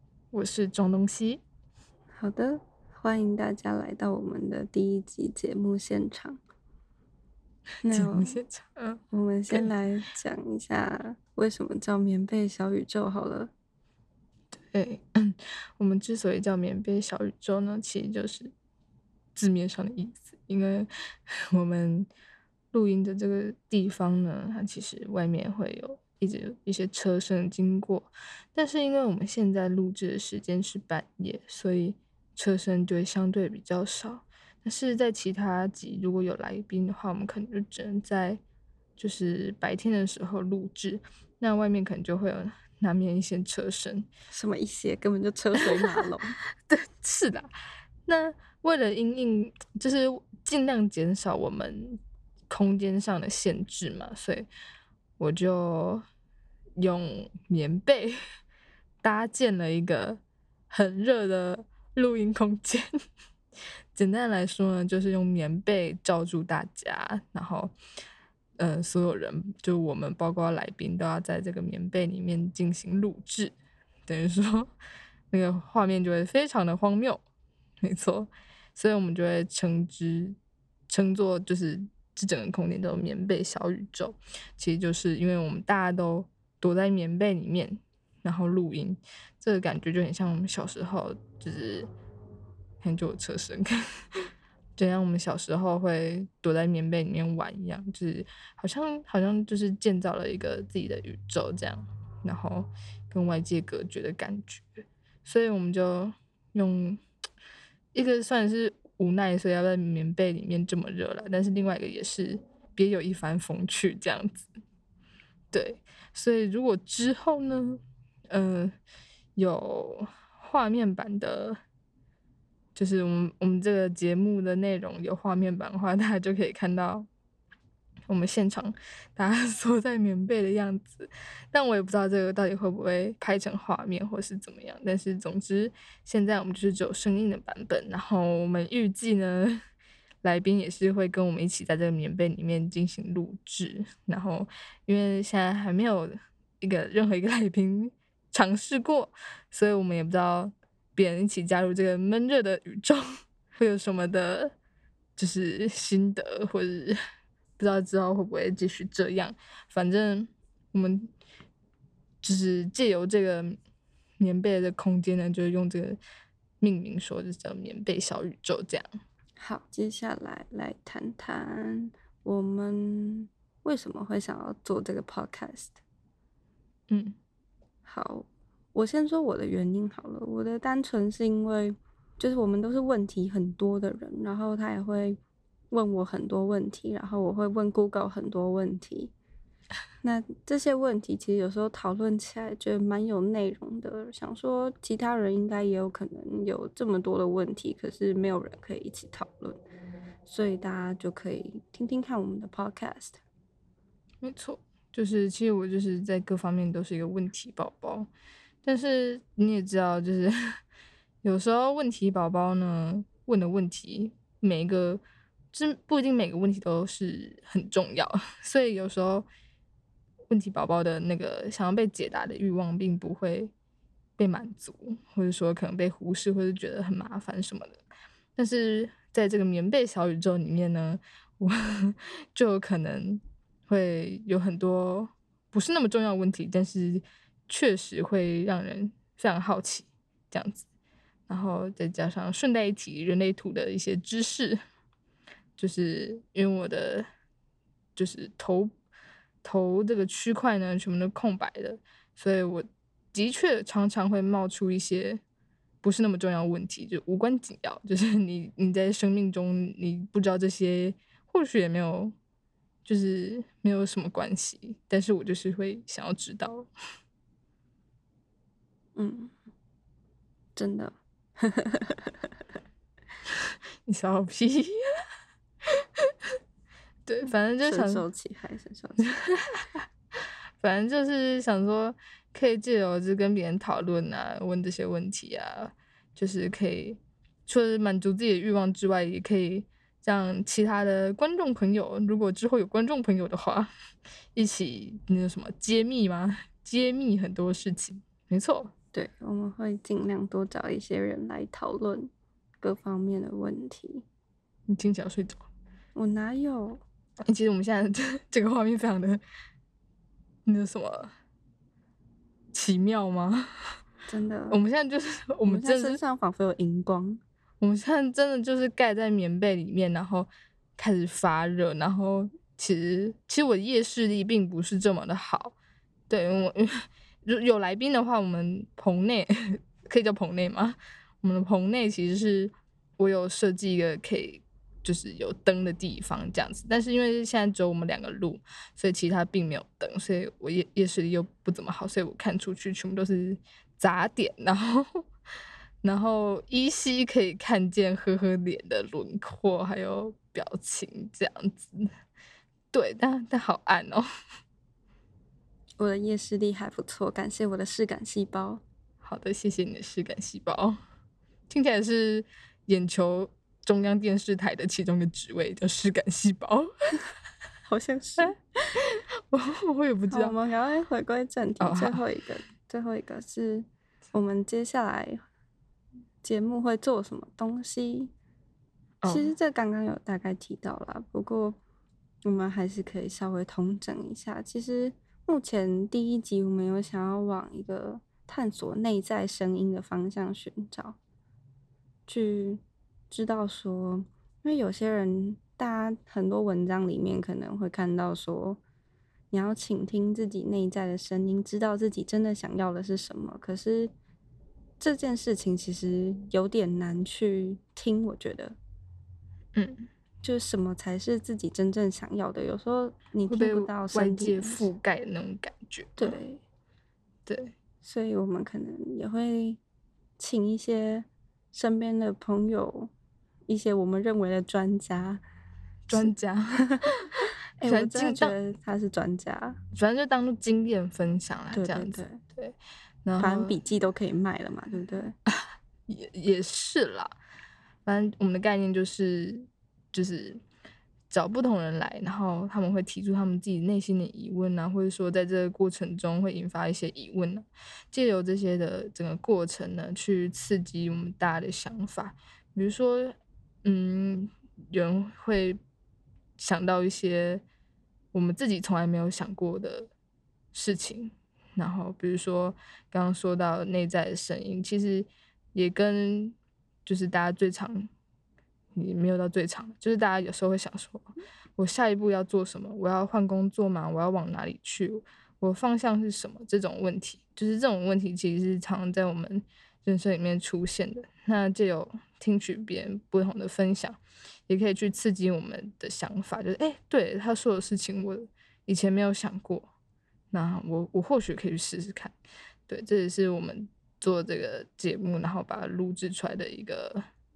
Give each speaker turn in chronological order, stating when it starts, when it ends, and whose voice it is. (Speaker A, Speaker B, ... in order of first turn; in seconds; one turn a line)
Speaker A: 0.3-1.4
Speaker B: 2.1-6.4
Speaker B: 7.8-8.4
Speaker A: 7.9-9.7
Speaker B: 9.1-13.5
Speaker A: 14.7-18.5
Speaker A: 19.4-22.1
Speaker A: 22.7-38.4
Speaker A: 39.0-44.1
Speaker B: 44.3-46.4
Speaker A: 46.7-47.5
Speaker A: 48.1-52.0
Speaker A: 52.5-54.5
Speaker A: 55.2-56.0
Speaker A: 56.8-58.2
Speaker A: 59.0-62.9
Speaker A: 64.0-67.7
Speaker A: 68.6-73.5
Speaker A: 74.1-74.7
Speaker A: 75.3-77.2
Speaker A: 77.8-80.4
Speaker A: 80.9-91.9
Speaker A: 92.8-93.8
Speaker A: 94.8-107.0
Speaker A: 107.9-114.5
Speaker A: 115.5-118.8
Speaker A: 119.4-121.6
Speaker A: 122.8-127.1
Speaker A: 128.1-139.6
Speaker A: 140.2-153.1
Speaker A: 153.6-154.5
Speaker A: 155.2-157.0
Speaker A: 157.6-161.1
Speaker A: 162.2-163.6
Speaker A: 164.2-166.0
Speaker A: 166.6-168.9
Speaker B: 169.4-175.8
Speaker A: 176.9-177.2
Speaker B: 177.8-185.2
Speaker B: 185.7-189.1
Speaker B: 190.0-199.6
Speaker B: 200.3-203.2
Speaker A: 204.2-208.1
Speaker A: 208.7-210.6
Speaker A: 211.2-215.0
Speaker A: 215.5-219.3
Speaker A: 220.3-223.5
Speaker A: 224.2-227.8
Speaker A: 228.4-240.7
Speaker A: 241.3-244.6
Speaker A: 245.6-247.1
Speaker A: 248.0-248.7
Speaker A: 249.4-255.2
Speaker A: 255.8-262.1
Speaker A: 262.9-266.7
Speaker B: 269.0-269.3
Speaker B: 270.6-272.1
Speaker A: 273.9-274.7
Speaker A: 277.1-278.0
Speaker B: 277.6-279.2
Speaker A: 279.3-279.8
Speaker A: 280.6-293.7
Speaker A: 294.4-298.7
Speaker B: 298.9-302.1
Speaker B: 302.6-304.0
Speaker A: 304.7-305.5
Speaker B: 305.9-306.8
Speaker A: 307.3-309.2
Speaker A: 310.5-311.1
Speaker A: 312.5-313.5
Speaker B: 314.1-314.6
Speaker A: 314.5-316.0
Speaker B: 315.4-317.2
Speaker A: 317.6-325.6
Speaker A: 326.1-345.1
Speaker A: 345.8-351.9
Speaker A: 352.7-354.1
Speaker B: 355.8-358.6
Speaker A: 359.0-360.8
Speaker A: 361.5-366.7
Speaker B: 367.7-368.3
Speaker A: 368.2-370.4
Speaker B: 370.1-375.2
Speaker A: 371.6-372.0
Speaker B: 376.2-378.1
Speaker A: 379.0-379.3
Speaker B: 379.1-381.6
Speaker B: 382.2-391.0
Speaker B: 392.1-398.6
Speaker B: 399.3-403.9
Speaker B: 404.8-408.6
Speaker A: 409.6-409.9
Speaker B: 410.2-414.7
Speaker A: 413.3-416.2
Speaker B: 416.0-416.4
Speaker A: 417.3-417.5
Speaker B: 417.8-419.6
Speaker B: 420.2-422.9
Speaker B: 423.5-425.2
Speaker A: 425.9-428.4
Speaker B: 427.6-429.6
Speaker A: 429.7-433.6
Speaker B: 431.5-432.2
Speaker B: 433.2-435.1
Speaker A: 435.3-437.1
Speaker A: 437.9-440.4
Speaker A: 441.1-455.6
Speaker A: 456.4-457.4
Speaker A: 458.1-459.9
Speaker A: 460.5-467.9
Speaker A: 468.8-489.7
Speaker A: 490.3-492.1
Speaker A: 492.7-497.1